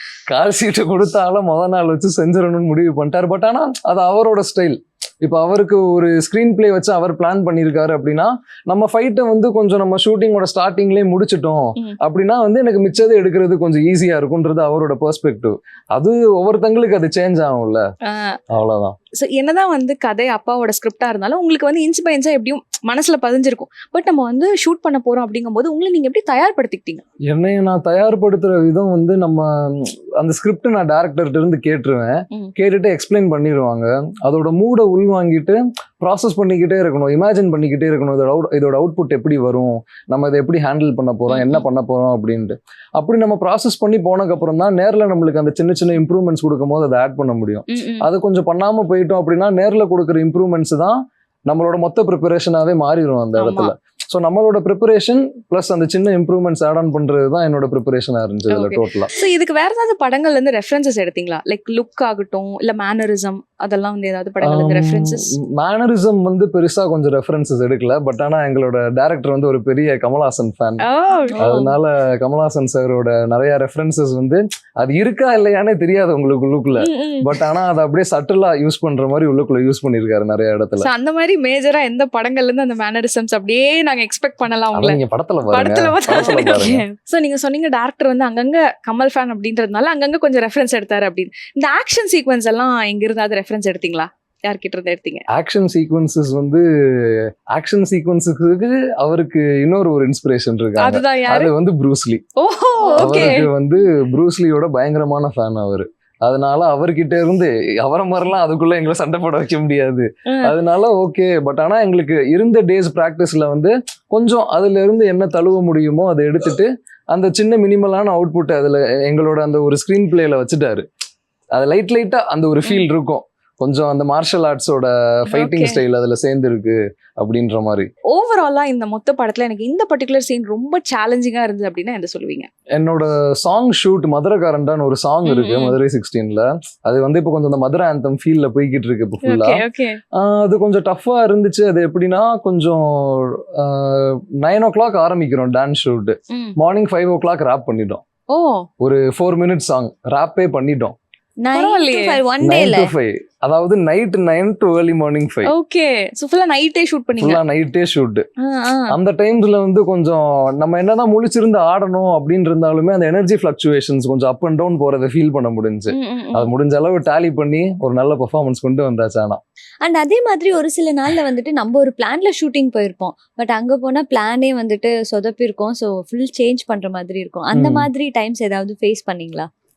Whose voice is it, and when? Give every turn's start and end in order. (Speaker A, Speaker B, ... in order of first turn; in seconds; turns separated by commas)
Speaker A: 0.3-17.8, Speaker B: 18.1-18.4, Speaker A: 18.5-19.0, Speaker B: 19.1-27.0, Speaker A: 27.3-59.1, Speaker B: 41.3-41.6, Speaker B: 47.7-48.1, Speaker B: 53.4-53.7, Speaker B: 58.5-65.3, Speaker A: 64.4-70.8, Speaker B: 70.8-71.4, Speaker C: 71.3-71.7, Speaker A: 71.4-80.9, Speaker B: 76.8-77.5, Speaker B: 80.8-85.0, Speaker A: 84.7-86.8, Speaker B: 85.5-95.2, Speaker A: 95.3-102.2, Speaker B: 100.8-101.5, Speaker B: 102.4-103.5, Speaker C: 102.8-103.2, Speaker A: 103.0-120.9, Speaker B: 110.3-110.5, Speaker A: 121.5-127.9, Speaker B: 125.3-125.8, Speaker B: 128.1-132.5, Speaker A: 132.7-148.0, Speaker B: 135.3-135.8, Speaker B: 139.2-140.0, Speaker B: 146.3-146.6, Speaker B: 148.3-148.7, Speaker A: 148.8-151.0, Speaker C: 151.4-152.9, Speaker B: 151.5-152.2, Speaker A: 152.4-155.5, Speaker B: 155.5-157.4, Speaker A: 157.2-158.2, Speaker B: 158.4-159.0, Speaker A: 158.9-169.4, Speaker B: 165.9-166.5, Speaker C: 169.8-179.5, Speaker A: 177.5-177.9